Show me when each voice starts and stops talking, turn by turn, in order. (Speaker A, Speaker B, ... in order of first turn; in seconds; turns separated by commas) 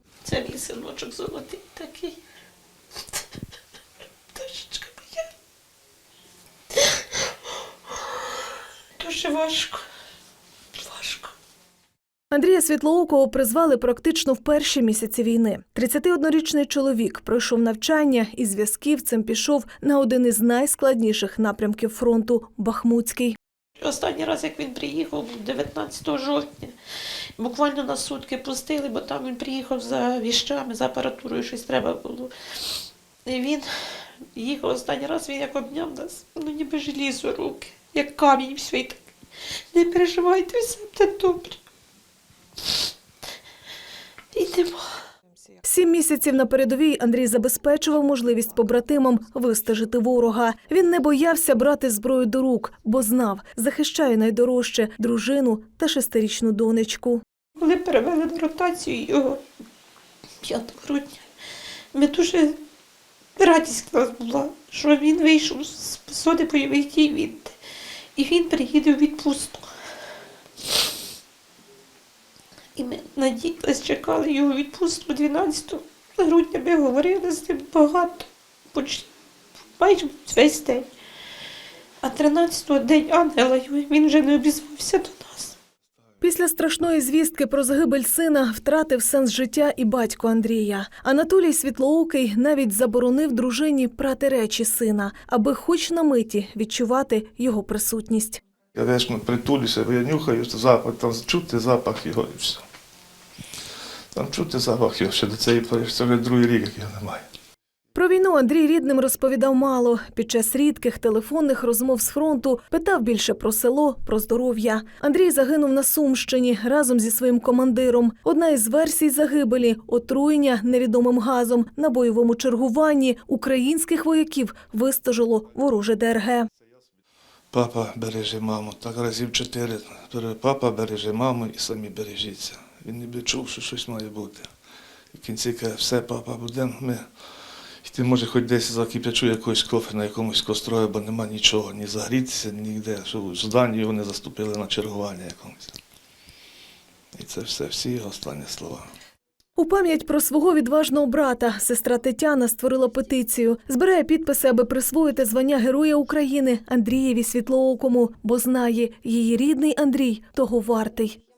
Speaker A: 0.2-2.2, Speaker A: 4.3-5.3, Speaker A: 6.8-7.0, Speaker A: 9.0-9.8, Speaker A: 10.8-11.3, Speaker B: 12.3-23.4, Speaker A: 23.8-26.7, Speaker A: 27.4-32.3, Speaker A: 33.2-33.7, Speaker A: 34.4-39.0, Speaker A: 39.7-41.6, Speaker A: 44.3-44.9, Speaker B: 45.6-57.2, Speaker A: 57.6-59.4, Speaker A: 60.4-61.2, Speaker A: 61.9-62.6, Speaker A: 63.4-67.5, Speaker A: 68.2-69.7, Speaker A: 72.8-79.1, Speaker A: 79.8-80.9, Speaker A: 82.0-85.6, Speaker B: 86.2-98.4, Speaker C: 98.8-102.6, Speaker C: 104.1-107.3, Speaker B: 107.9-126.5, Speaker C: 127.5-134.5, Speaker C: 135.1-137.1, Speaker C: 137.8-145.8, Speaker C: 147.2-148.9, Speaker B: 149.6-161.2